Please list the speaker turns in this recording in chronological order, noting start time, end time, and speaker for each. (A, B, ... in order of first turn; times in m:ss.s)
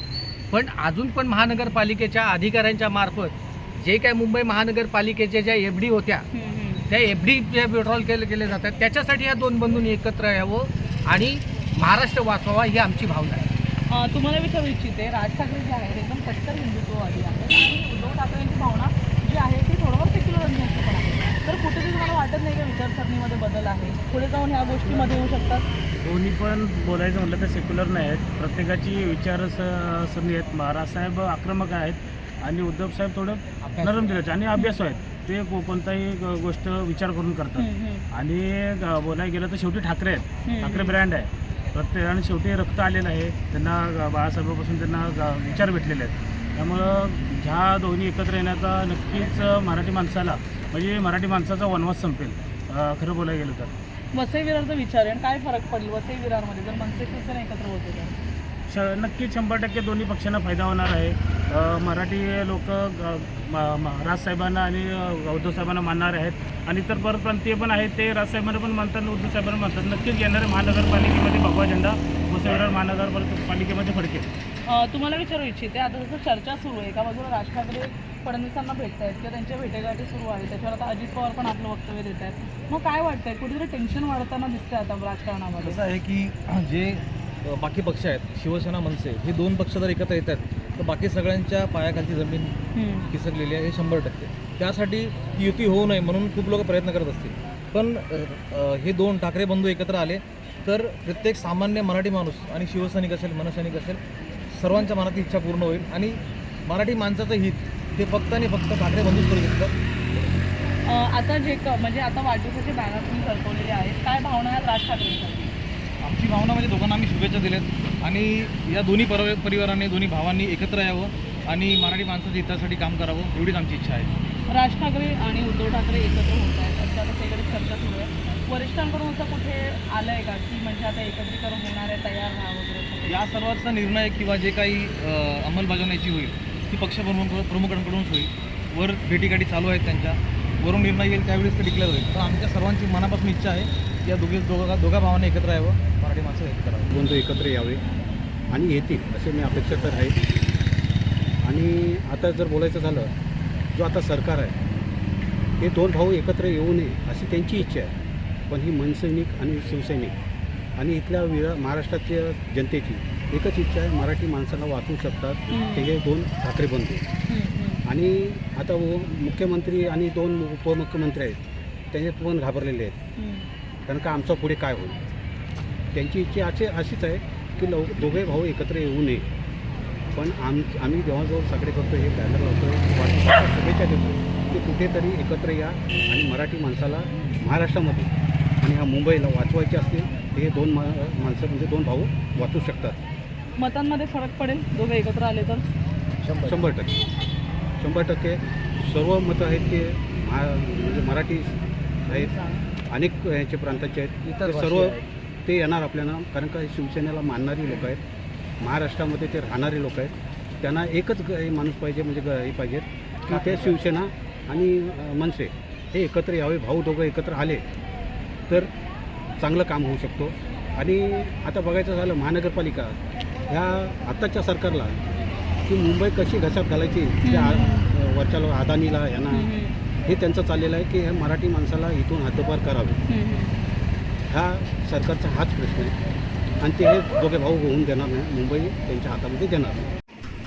0:00.5-0:06.3 A
0:06.3-0:06.8 B
0:06.9-0:13.5 A
0:13.9-0:25.7 B
0:26.0-0:53.7 C
0:33.6-0:34.1 A
0:37.6-0:38.0 B
0:40.5-0:41.0 B
0:54.1-0:58.2 B
0:58.7-1:14.3 C
1:14.7-1:25.8 B
1:25.6-1:32.5 D
1:32.8-1:33.1 B
1:33.1-1:44.0 D
1:44.5-1:49.7 D
1:50.8-1:55.5 B
1:56.0-2:04.1 D
2:04.5-2:13.2 B
2:13.1-2:26.9 D
2:26.9-2:27.8 E
2:28.5-2:30.2 E
2:31.4-2:33.1 E
2:33.7-2:34.6 E
2:35.6-2:37.9 E
2:38.5-2:40.2 E
2:40.8-2:47.1 E
2:45.5-2:45.9 B
2:47.3-2:47.8 B
2:47.9-2:51.4 E
2:51.9-2:52.9 E
2:53.2-2:53.5 B
2:53.9-2:55.0 E
2:55.9-2:59.2 E
3:00.2-3:08.1 E
3:08.6-3:13.0 E
3:13.6-3:15.7 B
3:16.2-3:16.6 A
3:16.4-3:17.0 E
3:17.8-3:22.4 E
3:22.9-3:28.0 E
3:24.3-3:25.0 A
3:28.6-3:37.6 E
3:33.3-3:33.7 A
3:39.4-3:43.0 E
3:43.5-3:45.0 E
3:45.7-3:49.5 E
3:47.2-3:47.9 B
3:49.3-3:49.8 B
3:50.0-3:53.0 E
3:53.1-3:53.6 B
3:54.3-3:55.9 E
3:56.6-3:59.8 E